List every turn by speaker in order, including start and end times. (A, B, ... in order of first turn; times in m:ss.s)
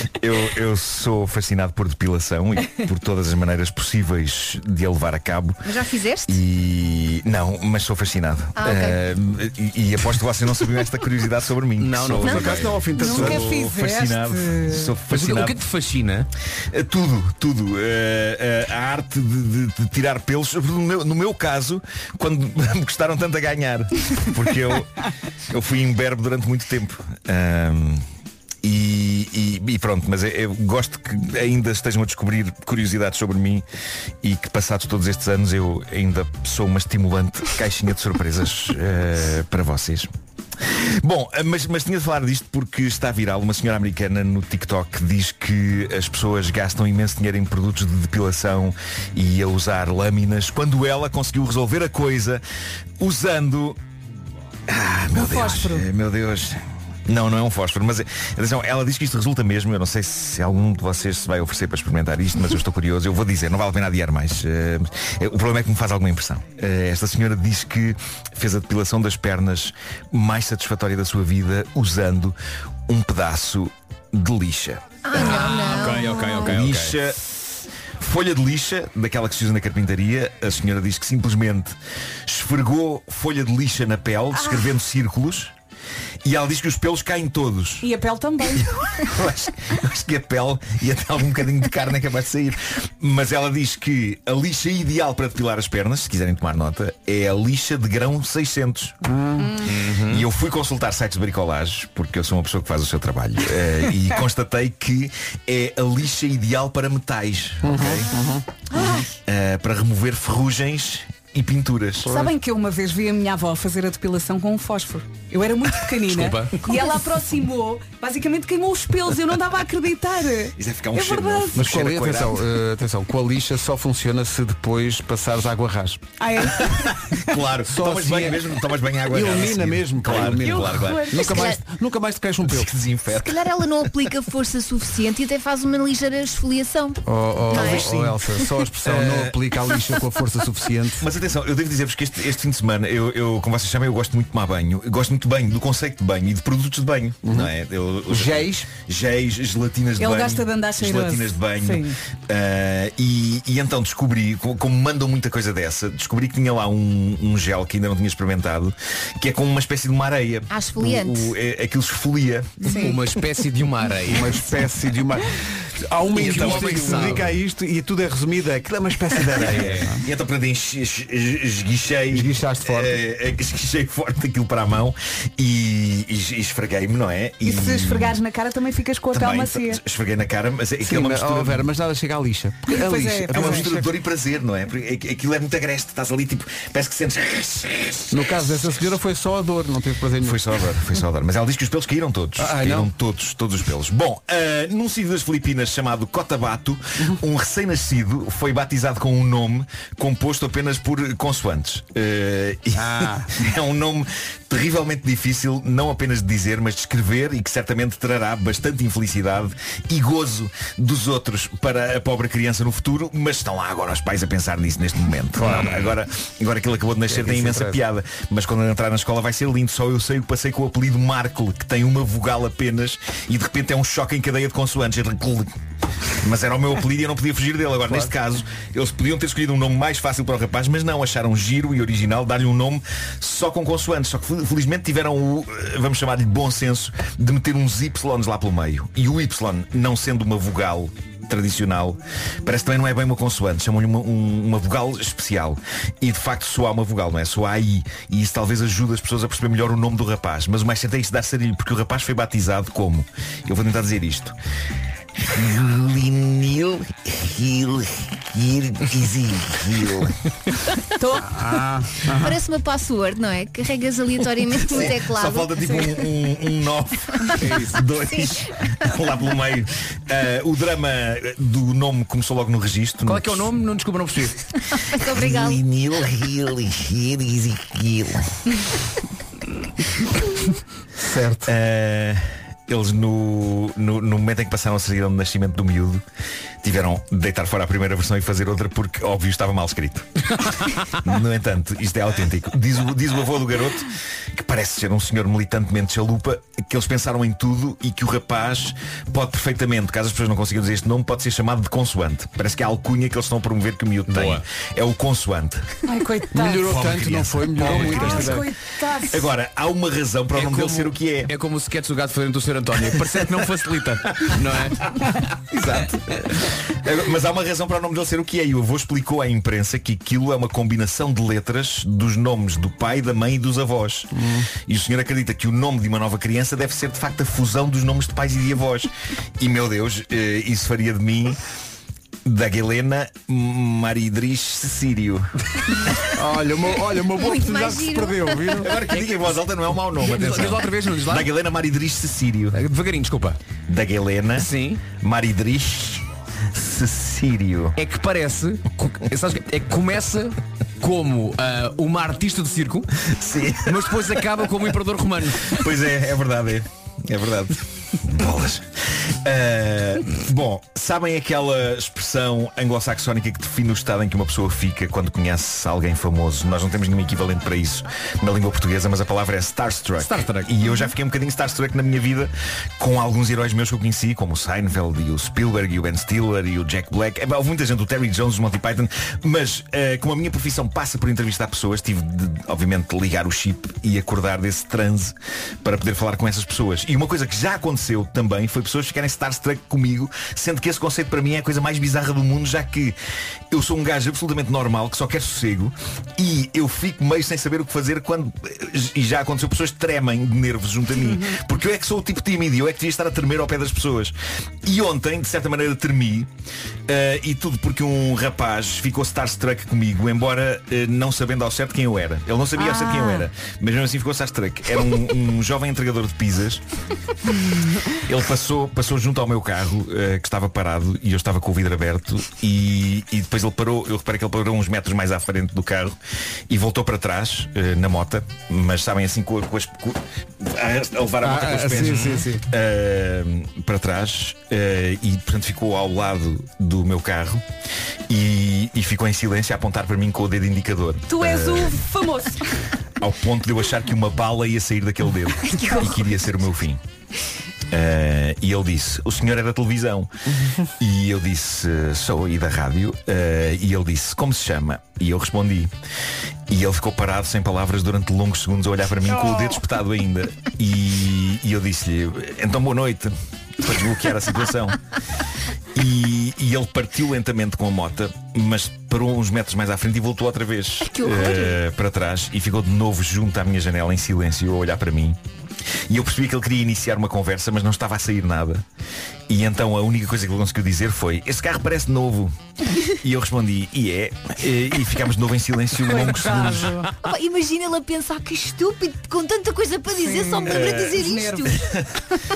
0:00.2-0:05.7 A
0:05.6-0:06.4 B
0:06.2-0:15.6 A
0:08.6-0:09.0 B
0:11.8-0:12.7 C
0:12.2-0:13.5 D
0:13.0-0:14.9 E
0:15.1-0:16.3 C
0:16.7-0:24.9 A
0:25.5-0:28.0 A
0:28.6-0:33.6 A
0:34.2-0:40.1 A
0:40.6-0:52.4 A
0:53.0-0:53.8 A
0:54.7-1:12.4 A
0:55.1-0:55.8 E
1:12.9-1:15.0 A
1:15.0-1:16.6 B
1:15.1-1:17.0 C
1:16.1-1:17.2 A
1:18.0-1:21.8 A
1:22.3-1:25.5 A
1:26.2-1:27.9 A
1:27.8-1:28.7 E
1:28.5-1:39.0 A
1:39.0-1:39.6 D
1:39.4-1:39.7 E
1:39.6-1:40.2 C
1:39.7-1:48.1 A
1:47.6-1:48.4 D
1:48.8-1:49.0 E
1:49.2-1:52.1 A
1:52.0-1:52.3 D
1:52.0-2:01.6 E
1:56.1-1:56.6 C
2:00.6-2:02.4 A
2:01.5-2:06.0 D
2:06.2-2:06.8 E
2:06.6-2:11.4 A
2:07.6-2:08.6 D
2:09.1-2:12.7 D
2:10.4-2:11.4 E
2:11.1-2:11.6 B
2:12.4-2:14.1 A
2:13.1-2:18.3 B
2:17.0-2:21.1 D
2:17.5-2:18.2 A
2:18.8-2:19.4 A
2:21.0-2:43.1 A
2:27.2-2:27.5 D
2:28.1-2:28.7 D
2:30.0-2:32.0 E
2:40.5-2:41.4 B
2:42.6-2:42.9 E
2:42.7-2:44.4 C
2:44.0-2:50.0 D
2:46.1-2:47.3 A
2:46.2-2:47.4 C
2:49.2-2:58.2 A
2:49.5-2:49.9 C
2:52.1-2:53.0 D
2:57.4-2:59.8 E
2:59.1-3:01.7 A
3:00.8-3:03.9 D
3:02.7-3:03.6 E
3:03.3-3:08.4 A
3:08.1-3:10.7 D
3:10.2-3:45.5 A
3:12.4-3:12.9 D
3:22.7-3:23.3 D
3:37.0-3:37.8 D
3:46.2-4:14.4 A
4:15.2-4:20.1 A
4:21.0-4:21.4 E
4:21.2-4:22.4 D
4:22.1-4:26.0 B
4:24.6-4:33.5 A
4:27.2-4:27.5 B
4:27.4-4:27.8 C
4:28.1-4:28.4 B
4:33.0-4:34.4 C
4:34.9-4:35.6 B
4:34.9-4:38.3 A
4:41.0-4:41.5 D
4:41.4-4:46.0 A
4:46.6-5:05.8 A
5:04.1-5:04.4 C
5:05.8-5:06.8 E
5:06.3-5:08.5 D
5:06.7-5:08.4 A
5:07.6-5:08.0 C
5:07.7-5:09.2 E
5:09.0-5:11.3 A
5:10.3-5:14.8 C
5:15.5-5:31.4 A
5:24.1-5:24.5 D
5:32.2-5:36.0 A
5:36.1-5:38.8 D
5:37.1-5:38.7 B
5:38.6-5:42.6 A
5:38.9-5:39.4 C
5:40.0-5:41.3 C
5:42.5-5:43.4 C
5:43.7-5:47.8 A
5:44.4-5:44.8 C
5:47.8-5:52.9 C
5:53.1-5:53.9 A
5:53.6-5:55.6 C
5:55.5-5:58.7 A
5:59.2-6:33.0 A
6:10.0-6:10.5 C
6:33.5-6:46.3 A
6:46.9-6:56.6 A
6:57.9-7:06.0 A
7:06.5-7:17.4 A
7:11.2-7:12.5 D
7:11.9-7:12.2 C
7:18.1-7:21.8 A
7:21.1-7:22.5 E
7:23.0-7:26.8 A
7:25.4-7:26.1 B
7:27.7-7:30.1 A
7:30.8-7:35.7 A
7:36.5-7:44.8 A
7:45.7-7:55.2 A
7:50.8-7:51.6 B
7:55.9-7:58.6 A
7:59.3-8:02.4 A
8:03.0-8:06.9 A
8:05.8-8:06.9 E
8:07.0-8:11.8 B
8:10.0-8:11.6 E
8:10.4-8:11.9 A